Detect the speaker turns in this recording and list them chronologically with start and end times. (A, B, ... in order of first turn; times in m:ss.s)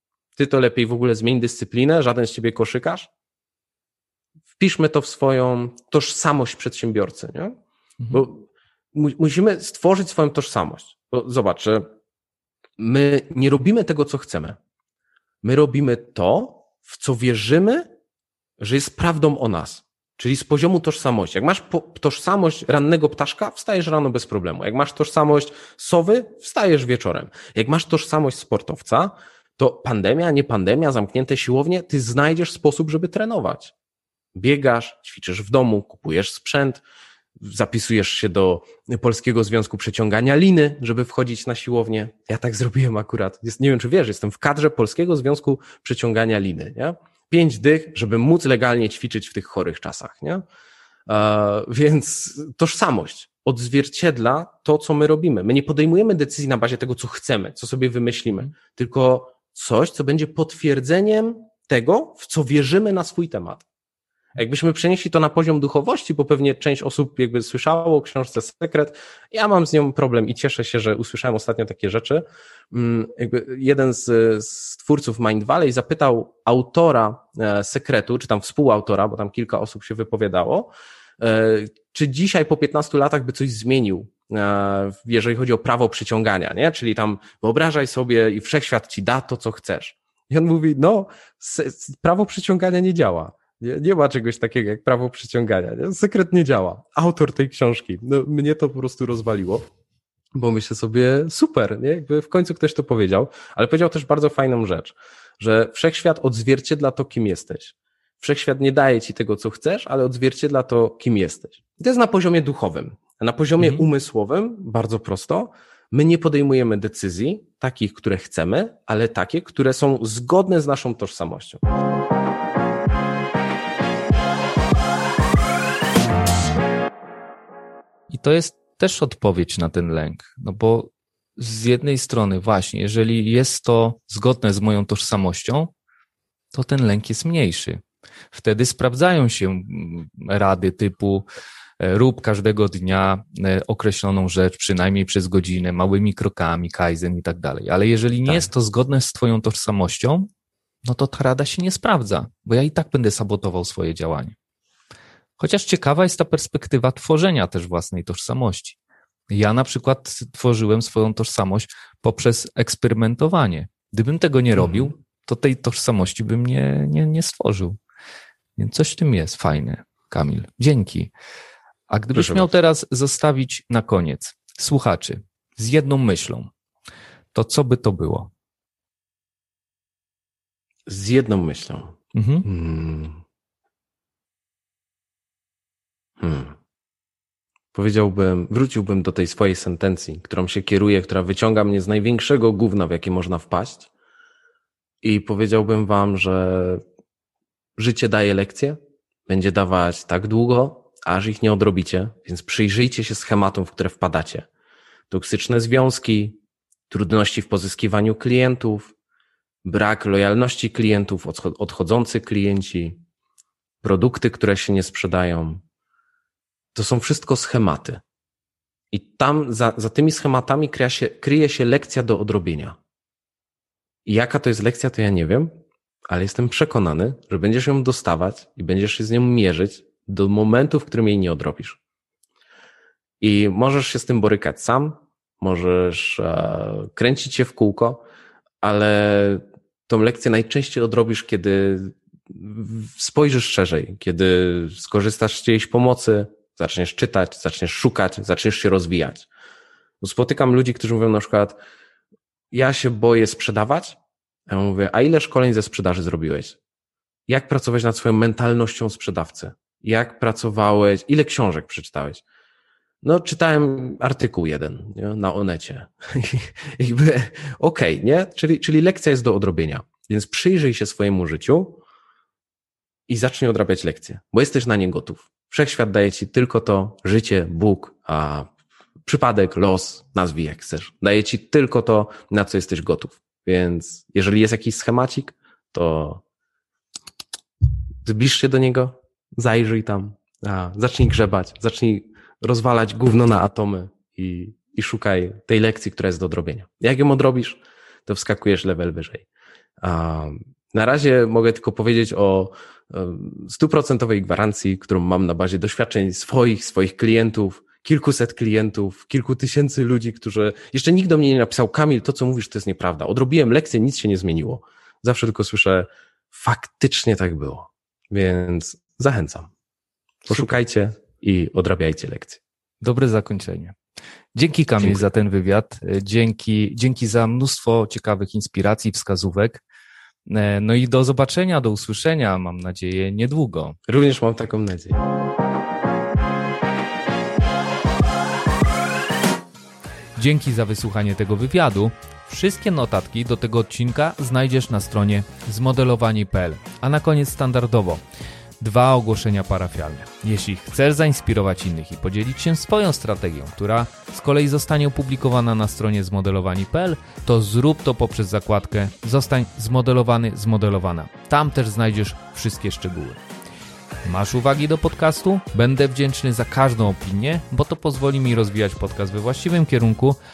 0:00.4-0:03.1 A
0:04.6-0:07.6 A
0:08.1-0:11.9 A
0:12.8-0:14.6 A
0:15.4-0:17.8 A
0:18.6-0:33.7 A
0:34.3-0:36.8 A
0:37.4-0:50.4 A
0:51.1-1:03.6 A
1:04.4-1:39.6 A
1:40.4-2:01.6 A
2:08.1-2:15.7 B
2:16.5-2:17.8 B
2:18.3-2:21.2 B
2:21.8-2:30.3 B
2:30.8-2:34.4 B
2:35.4-2:38.8 B
2:39.3-2:47.8 B
2:44.6-2:44.9 A
2:48.6-2:51.1 B
2:51.9-2:56.5 B
2:52.1-2:52.5 A
2:57.3-2:58.3 B
3:00.8-3:03.2 A
3:02.1-3:02.5 B
3:06.2-3:06.6 A
3:07.7-3:13.9 A
3:15.0-3:16.8 A
3:17.8-3:24.5 A
3:25.1-3:28.9 A
3:29.6-3:33.0 A
3:33.8-3:35.6 A
3:36.7-3:38.0 A
3:38.9-3:42.8 A
3:44.0-3:45.5 A
3:46.1-3:51.8 A
3:53.2-3:58.0 A
3:58.6-4:09.3 A
4:10.0-4:11.6 A
4:12.5-4:16.6 A
4:17.3-4:22.2 A
4:23.0-4:31.8 A
4:33.1-4:38.5 A
4:39.0-4:46.2 A
4:48.0-4:59.2 A
4:59.8-5:19.5 A
5:20.2-5:22.4 A
5:22.8-5:23.8 B
5:24.3-5:29.6 B
5:24.8-5:25.0 A
5:30.2-5:33.8 B
5:33.9-5:35.0 A
5:40.2-5:48.0 B
5:48.6-6:03.2 B
6:04.0-6:10.2 B